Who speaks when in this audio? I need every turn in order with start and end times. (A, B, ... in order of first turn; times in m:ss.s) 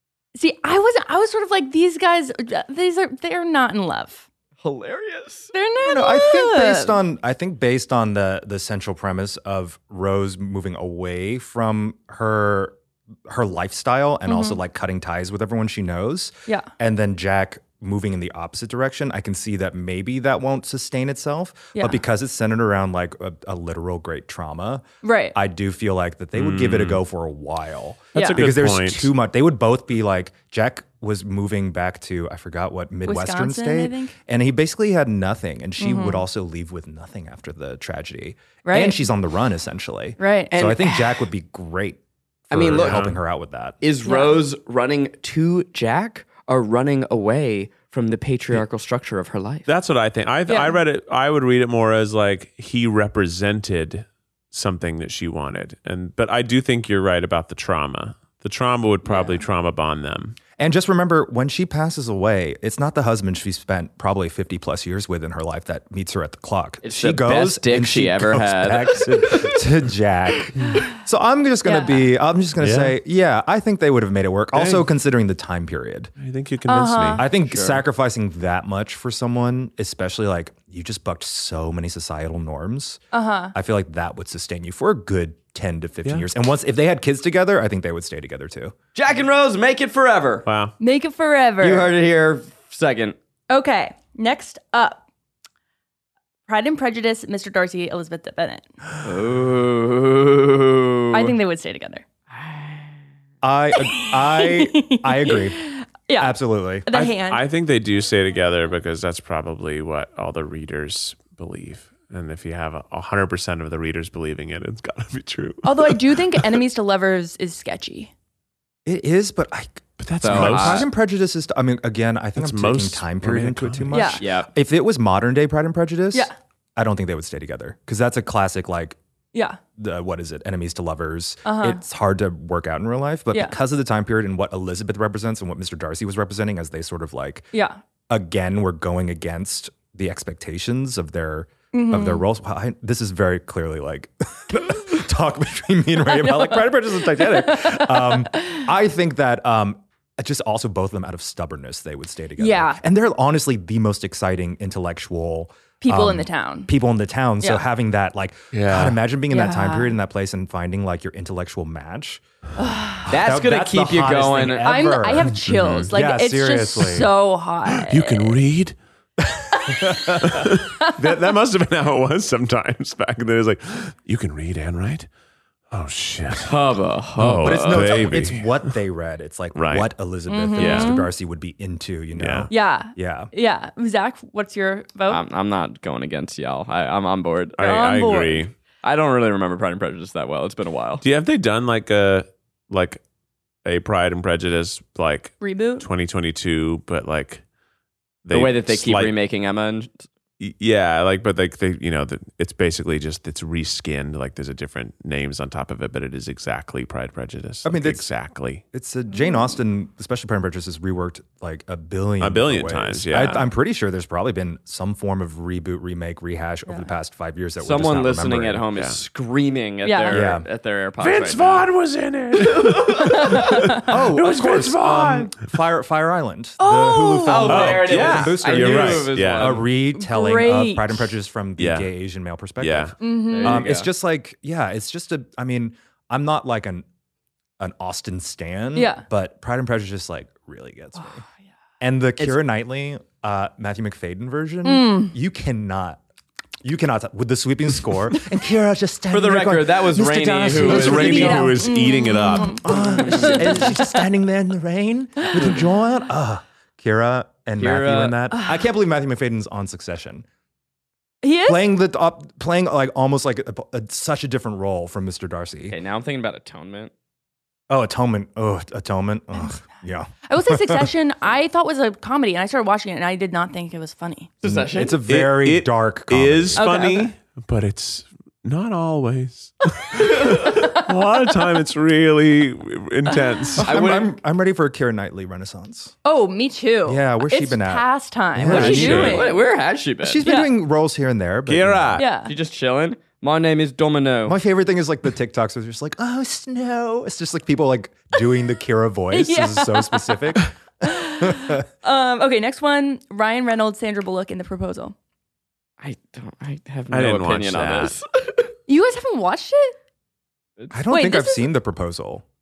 0:00.3-0:04.2 A
0:04.6-0:05.5 B
0:05.5-0:07.0 A
0:05.8-0:43.8 C
0:14.2-0:14.6 A
0:21.7-0:22.0 A
0:25.0-0:25.4 A
0:26.3-0:27.0 D
0:28.1-0:29.1 D
0:33.0-0:34.1 A
0:35.8-0:36.2 A
0:38.6-0:39.0 A
0:40.2-0:40.5 A
0:40.5-0:41.3 B
0:42.5-0:43.1 B
0:42.6-0:43.2 D
0:43.8-0:49.7 B
0:44.0-0:44.4 A
0:49.7-1:00.4 D
0:50.5-0:50.8 A
0:59.0-0:59.4 B
1:00.6-1:16.1 C
1:06.8-1:09.6 B
1:11.6-1:12.1 A
1:12.6-1:13.0 D
1:14.5-1:14.8 D
1:16.2-1:17.3 D
1:16.7-1:17.2 A
1:17.2-1:23.0 C
1:17.3-1:17.8 B
1:23.1-1:23.5 A
1:23.5-1:28.7 C
1:28.9-1:30.4 B
1:30.4-1:30.7 D
1:30.8-1:31.9 A
1:31.6-1:33.2 B
1:33.5-1:35.0 A
1:36.5-1:38.6 A
1:39.0-1:41.4 B
1:41.1-1:42.0 A
1:42.3-1:42.9 B
1:43.4-1:45.6 C
1:43.8-1:47.4 A
1:46.2-1:46.9 C
1:46.9-1:56.4 D
1:55.6-1:58.1 A
1:58.8-2:09.0 C
2:00.0-2:00.9 D
2:00.2-2:00.8 B
2:02.4-2:04.1 D
2:03.9-2:04.2 A
2:04.2-2:04.5 B
2:09.3-2:09.6 A
2:09.8-2:17.5 C
2:11.4-2:11.8 A
2:17.5-2:17.8 A
2:18.1-2:42.2 C
2:21.7-2:22.2 A
2:26.0-2:28.6 A
2:32.4-2:32.8 A
2:35.8-2:36.7 A
2:38.5-2:38.9 D
2:39.3-2:40.0 A
2:42.6-2:43.1 A
2:43.1-2:47.1 C
2:43.1-2:44.6 B
2:44.6-2:48.4 A
2:45.4-2:45.9 D
2:47.7-2:48.8 D
2:49.8-2:50.4 C
2:50.2-2:55.1 D
2:55.7-2:56.6 D
2:56.4-2:58.1 B
2:57.2-2:58.7 D
2:57.4-3:03.3 C
2:59.5-2:59.9 D
3:00.3-3:01.1 A
3:00.6-3:01.0 D
3:02.2-3:02.5 D
3:02.5-3:05.2 A
3:05.1-3:07.9 B
3:07.6-3:08.5 A
3:07.6-3:08.5 D
3:08.8-3:11.0 B
3:11.0-3:13.0 D
3:13.6-3:17.4 D
3:15.4-3:15.8 A
3:18.2-3:19.1 D
3:18.3-3:19.9 B
3:20.4-3:28.6 D
3:27.6-3:28.1 C
3:28.7-3:38.7 C
3:29.1-3:29.6 A
3:32.2-3:33.4 D
3:37.6-3:41.7 B
3:38.7-3:39.0 D
3:39.8-3:40.3 A
3:40.1-3:40.4 C
3:41.0-3:45.3 D
3:42.4-3:43.3 B
3:43.1-3:43.8 A
3:43.8-3:56.8 C
3:46.6-3:47.6 A
3:47.2-3:49.7 B
3:47.5-3:49.6 D
3:49.9-3:51.1 A
3:51.6-3:51.9 D
3:52.6-3:52.9 D
3:53.0-3:53.6 A
3:53.3-3:53.9 B
3:57.6-4:01.2 C
3:58.7-3:59.0 A
4:01.8-4:06.0 C
4:04.6-4:05.1 A
4:06.6-4:11.7 C
4:09.1-4:11.4 B
4:10.6-4:12.6 D
4:10.8-4:14.0 A
4:12.5-4:20.2 C
4:12.7-4:13.7 B
4:17.6-4:18.2 B
4:18.3-4:18.6 A
4:21.2-4:21.6 A
4:21.4-4:25.8 C
4:25.7-4:26.9 B
4:27.7-4:30.9 C
4:29.4-4:29.6 A
4:30.2-4:34.3 A
4:34.4-4:35.0 B
4:34.4-4:36.6 C
4:35.1-4:43.7 D
4:36.6-4:37.1 A
4:43.6-4:45.9 C
4:43.6-4:44.1 B
4:46.0-4:49.3 A
4:46.8-4:49.3 C
4:48.4-4:50.2 B
4:48.5-4:49.2 D
4:50.0-4:52.0 C
4:50.2-4:50.5 A
4:51.5-4:52.0 D
4:51.6-4:54.4 B
4:52.0-4:52.3 A
4:54.2-5:01.6 C
4:59.1-5:04.9 A
5:05.8-5:08.5 B
5:06.9-5:07.9 D
5:08.7-5:09.7 A
5:10.7-5:12.2 C
5:10.9-5:11.5 A